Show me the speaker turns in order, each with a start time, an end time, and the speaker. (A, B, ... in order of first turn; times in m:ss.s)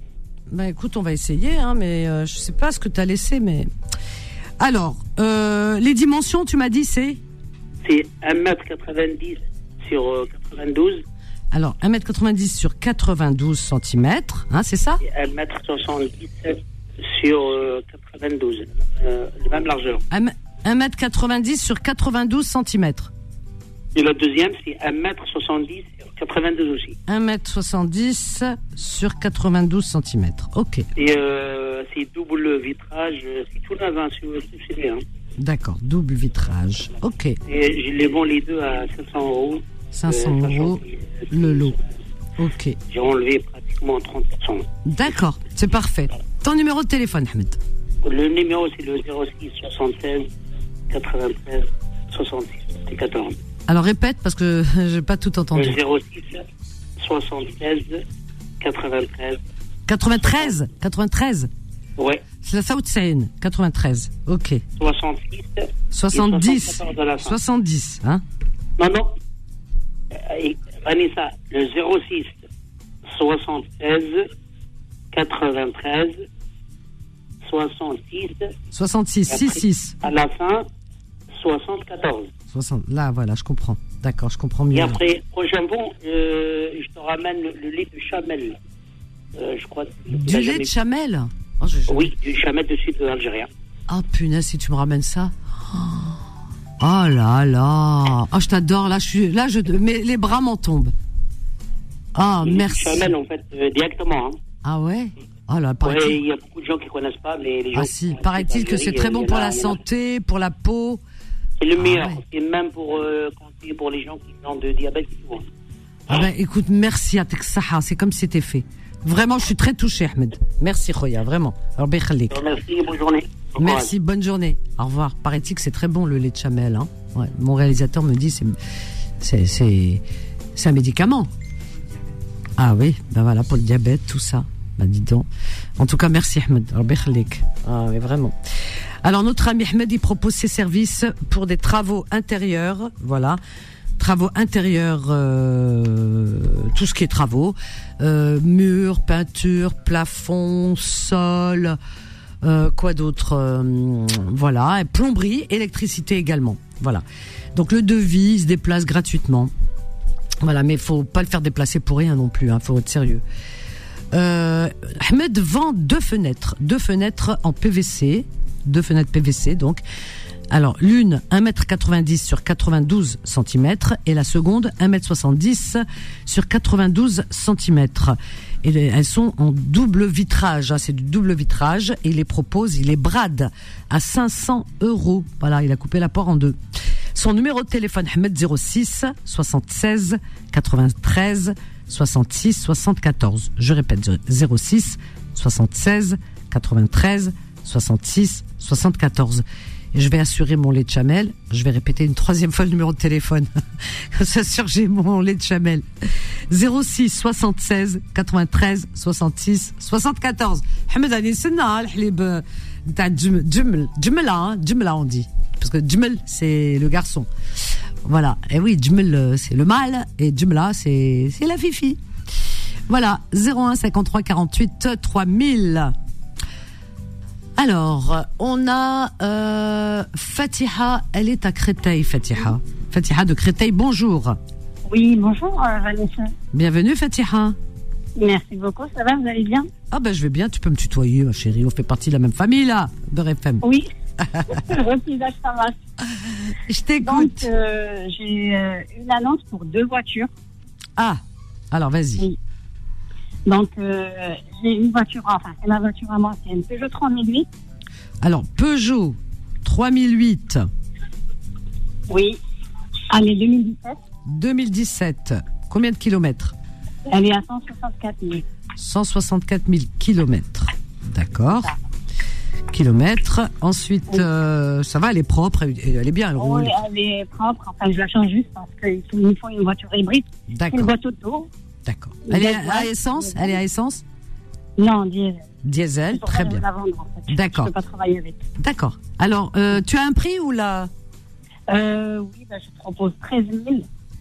0:00.5-0:03.7 A
0:04.6-0:07.2 A
0:07.8-0:11.0 B
0:11.5-0:15.0 A
0:15.0-0:20.0 B
0:20.1-0:23.1 A
0:23.9-0:27.0 B
0:27.1-0:30.9 A
0:31.0-0:35.0 B
0:35.4-0:37.4 A
0:37.5-0:41.7 B
0:39.9-0:41.7 A
0:42.4-0:42.8 A
0:42.9-0:44.6 B
0:44.8-0:47.6 A
0:48.0-0:50.3 B
0:50.9-0:53.4 B
0:53.7-0:55.8 A
0:55.5-0:56.4 B
0:57.0-0:58.0 B
0:58.6-0:59.4 B
0:59.9-1:01.5 A
1:00.2-1:00.5 B
1:02.4-1:04.6 A
1:04.8-1:07.4 B
1:05.9-1:08.2 A
1:08.8-1:09.1 B
1:10.1-1:12.4 B
1:13.0-1:14.3 B
1:15.1-1:16.2 B
1:17.4-1:18.5 B
1:18.7-1:20.0 A
1:19.3-1:20.6 B
1:21.3-1:22.3 B
1:22.5-1:25.0 A
1:24.7-1:28.6 B
1:29.4-1:30.7 B
1:30.1-1:32.1 A
1:31.9-1:33.5 B
1:33.9-1:36.2 A
1:36.8-1:40.9 A
1:42.1-1:43.1 A
1:42.4-1:44.4 B
1:44.6-1:46.2 A
1:45.8-1:49.8 B
1:47.7-1:51.0 A
1:51.6-1:55.4 B
1:51.8-1:52.2 A
1:56.1-2:02.4 A
2:02.3-2:03.9 B
2:03.6-2:08.6 A
2:09.2-2:10.0 A
2:10.5-2:11.3 A
2:12.6-2:15.3 A
2:15.8-2:18.3 A
2:19.0-2:23.4 A
2:24.0-2:31.8 A
2:32.4-2:39.5 A
2:40.4-2:43.2 A
2:44.1-2:49.8 A
2:50.5-3:06.6 A
3:07.1-3:23.5 A
3:24.1-3:25.8 A
3:26.5-3:37.3 A
3:38.0-3:42.0 A
3:42.9-3:45.9 A
3:47.6-3:54.4 A
3:54.8-3:56.3 C
3:56.5-3:57.6 A
3:58.2-3:59.7 C
3:59.9-4:03.6 A
4:03.6-4:03.9 C
4:04.2-4:04.5 A
4:04.5-4:05.8 C
4:06.5-4:07.5 A
4:07.0-4:10.3 C
4:11.7-4:12.3 A
4:13.4-4:17.5 C
4:18.2-4:20.7 A
4:22.1-4:22.4 C
4:23.1-4:24.0 C
4:24.2-4:26.5 A
4:27.1-4:28.4 C
4:28.8-4:31.7 A
4:32.7-4:36.8 A
4:36.4-4:41.5 C
4:40.5-4:40.9 A
4:41.8-4:44.0 A
4:42.2-4:43.6 C
4:44.8-4:45.5 C
4:45.6-4:46.6 A
4:46.1-4:48.4 C
4:47.3-4:47.7 A
4:48.6-4:50.9 A
4:51.7-4:53.8 C